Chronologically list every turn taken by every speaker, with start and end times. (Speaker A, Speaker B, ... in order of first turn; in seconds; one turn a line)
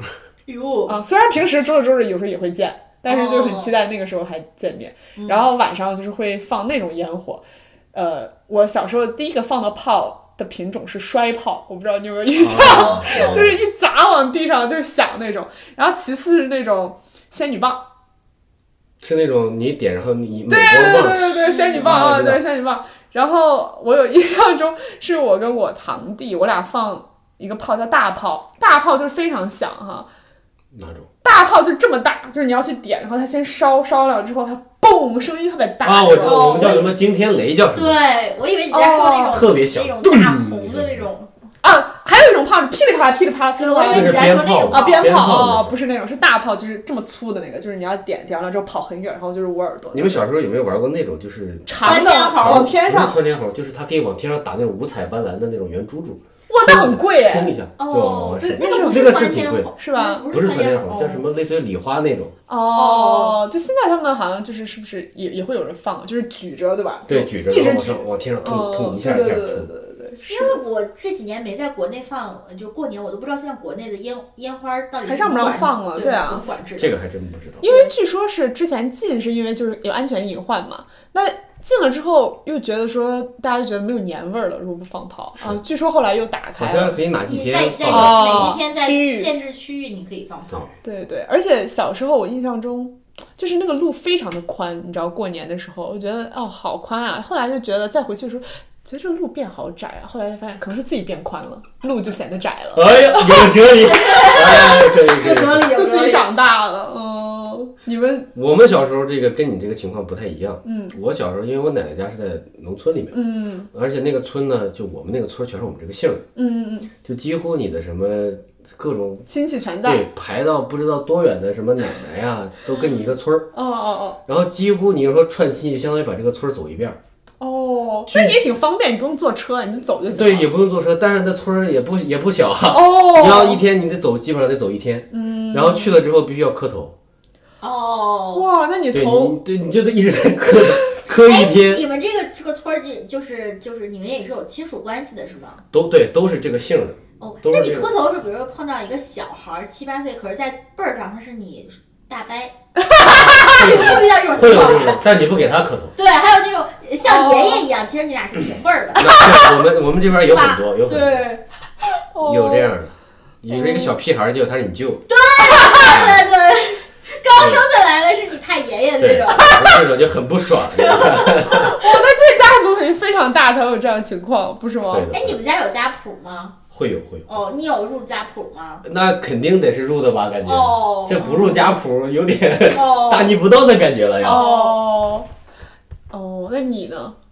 Speaker A: 0.5-1.0
Speaker B: 0.9-17.8
Speaker A: 3.0-3.7
Speaker A: 5.2-5.5
Speaker C: 12.3-13.6
Speaker A: 12.6-13.5
Speaker C: 19.0-22.4
Speaker B: 20.5-30.1
Speaker A: 21.4-21.9
Speaker C: 30.7-31.1
Speaker B: 31.2-36.8
Speaker C: 35.8-38.0
Speaker A: 36.1-36.9
Speaker A: 37.7-41.3
Speaker B: 38.7-39.4
Speaker C: 39.3-41.1
Speaker B: 41.6-50.2
Speaker A: 43.6-45.2
Speaker C: 43.9-45.8
Speaker C: 49.9-59.7
Speaker B: 51.6-53.2
Speaker A: 51.8-52.7
Speaker B: 56.5-57.5
Speaker A: 57.8-61.2
Speaker B: 58.4-60.2
Speaker C: 60.3-62.3
Speaker B: 62.5-70.5
Speaker A: 62.7-63.4
Speaker C: 67.1-69.7
Speaker A: 70.3-76.9
Speaker B: 75.1-76.5
Speaker C: 76.8-77.7
Speaker B: 77.6-87.0
Speaker C: 86.6-88.6
Speaker A: 87.3-90.7
Speaker B: 87.8-89.3
Speaker B: 90.8-103.5
Speaker C: 102.7-105.7
Speaker A: 103.8-106.3
Speaker B: 105.7-108.3
Speaker C: 108.3-113.2
Speaker B: 110.6-111.0
Speaker B: 113.1-113.7
Speaker C: 113.7-116.2
Speaker B: 116.3-116.9
Speaker C: 117.0-119.2
Speaker B: 119.3-120.1
Speaker C: 119.8-123.5
Speaker B: 123.5-124.2
Speaker C: 124.2-127.0
Speaker B: 127.4-130.5
Speaker C: 128.1-128.4
Speaker C: 130.1-136.9
Speaker B: 132.7-133.6
Speaker B: 135.1-136.0
Speaker A: 137.6-138.4
Speaker B: 138.3-139.4
Speaker C: 138.9-141.8
Speaker A: 141.1-145.6
Speaker C: 145.7-147.9
Speaker A: 147.2-155.0
Speaker B: 152.8-153.6
Speaker C: 153.0-155.9
Speaker A: 155.9-161.4
Speaker B: 157.0-157.7
Speaker C: 158.9-161.3
Speaker B: 161.9-162.7
Speaker C: 162.2-165.0
Speaker B: 163.5-163.9
Speaker A: 165.1-169.7
Speaker C: 165.7-166.3
Speaker C: 167.3-167.6
Speaker C: 169.0-171.8
Speaker A: 170.8-172.0
Speaker B: 171.5-175.1
Speaker C: 174.9-175.4
Speaker A: 175.1-176.6
Speaker C: 176.7-177.4
Speaker A: 177.3-178.8
Speaker C: 178.8-184.4
Speaker A: 180.4-181.3
Speaker B: 181.2-181.7
Speaker A: 182.7-183.4
Speaker A: 184.2-184.8
Speaker B: 184.2-185.3
Speaker B: 186.1-187.2